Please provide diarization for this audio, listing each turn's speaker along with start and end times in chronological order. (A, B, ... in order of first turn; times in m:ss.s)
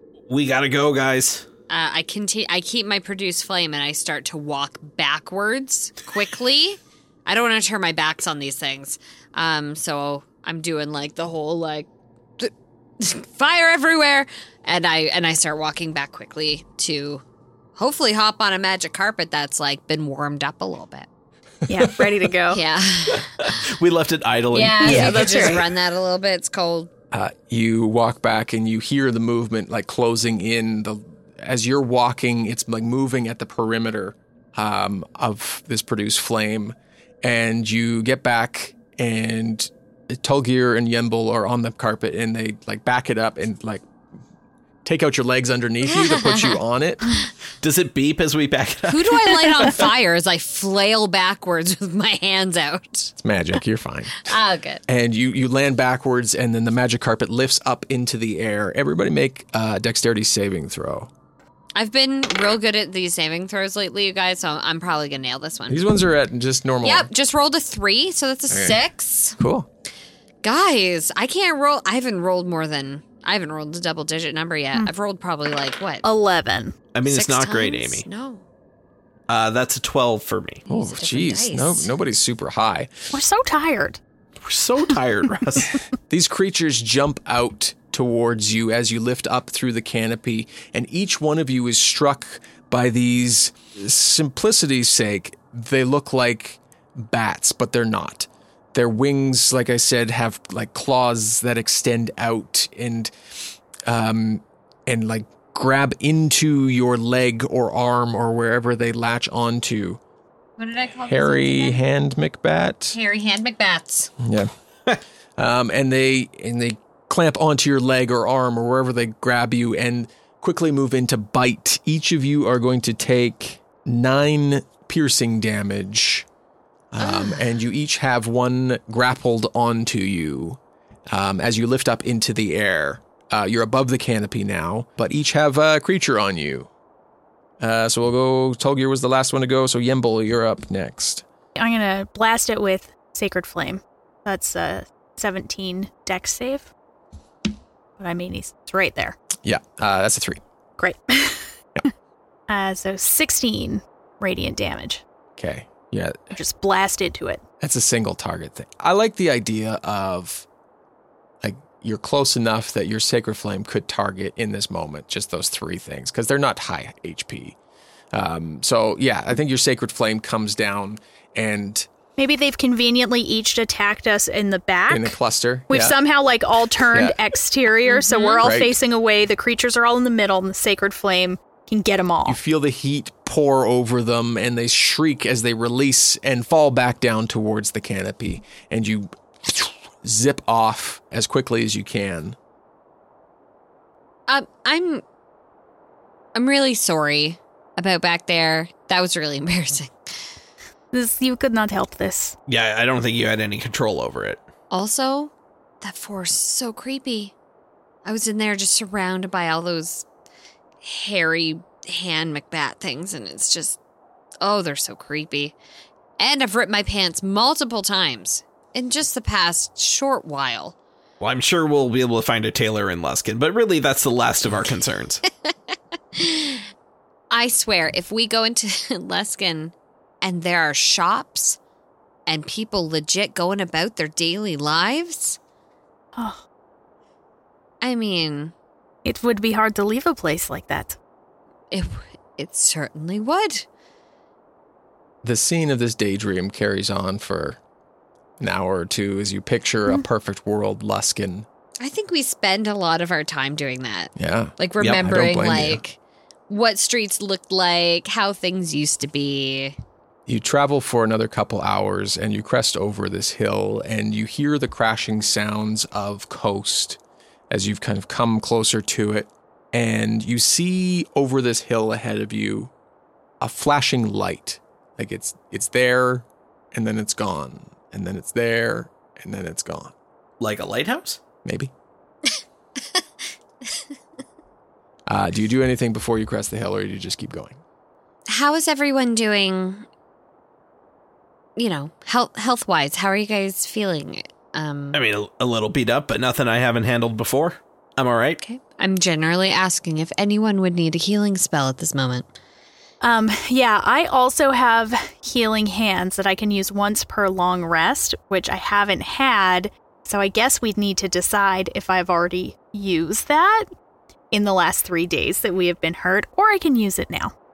0:00.3-0:01.4 A
0:01.7-0:11.9 B
0:12.4-0:17.2 B
0:17.8-0:21.1 B
0:21.7-0:22.6 C
0:22.5-0:23.6 B
0:23.1-0:25.7 A
0:24.5-0:26.9 B
0:24.8-0:25.6 C
0:27.1-0:43.8 D
0:44.8-0:47.0 D
0:45.9-0:46.6 B
0:47.6-0:49.9 A
0:48.9-0:53.1 B
0:53.2-0:54.3 D
0:54.2-0:54.8 B
0:54.9-1:01.1 D
1:01.8-1:05.8 B
1:05.7-1:07.1 D
1:06.8-1:09.4 B
1:08.5-1:08.8 D
1:09.4-1:09.7 D
1:10.4-1:16.0 B
1:16.0-1:16.8 C
1:17.0-1:18.0 A
1:17.1-1:18.4 B
1:19.3-1:20.6 A
1:20.7-1:21.9 B
1:20.7-1:23.1 D
1:23.1-1:24.0 C
1:24.4-1:25.8 A
1:26.1-1:43.1 D
1:43.9-1:50.0 D
1:50.6-1:51.8 B
1:51.1-1:53.0 D
1:52.9-1:54.1 B
1:54.2-1:54.5 D
1:55.4-2:06.3 D
2:06.9-2:16.7 D
2:07.0-2:07.4 B
2:17.6-2:21.2 D
2:21.6-2:26.7 C
2:28.0-2:29.2 C
2:29.4-2:30.4 D
2:30.8-2:31.5 C
2:32.5-2:35.0 C
2:35.4-2:36.3 D
2:36.3-2:37.4 C
2:37.6-2:40.5 D
2:41.4-2:47.6 D
2:48.1-2:51.9 D
2:52.2-2:55.2 C
2:54.9-2:56.0 D
2:55.7-3:02.4 C
2:56.8-2:57.2 D
2:57.9-2:58.5 B
2:58.4-2:58.7 D
3:02.3-3:12.4 D
3:14.3-3:15.0 B
3:16.4-3:20.0 B
3:20.9-3:22.4 C
3:22.5-3:24.4 A
3:24.7-3:27.3 B
3:28.0-3:30.1 B
3:30.8-3:33.8 B
3:34.4-3:35.6 B
3:36.2-3:40.8 B
3:41.2-3:45.2 A
3:46.2-3:46.6 B
3:47.3-3:51.6 B
3:52.3-3:55.4 B
3:56.2-3:56.4 C
3:57.8-3:58.5 B
3:59.0-4:01.0 C
4:01.7-4:03.7 B
4:05.2-4:07.6 D
4:08.4-4:11.5 D
4:11.8-4:16.0 B
4:14.2-4:15.8 D
4:16.5-4:19.8 B
4:20.3-4:27.0 D
4:27.5-4:32.7 D
4:33.4-4:39.9 D
4:40.4-4:41.2 A
4:41.4-4:41.7 D
4:45.1-4:47.6 D
4:48.3-4:49.9 B
4:51.6-4:55.0 B
4:54.9-4:58.4 A
4:58.4-5:02.3 B
5:03.0-5:13.7 C
5:14.3-5:17.3 C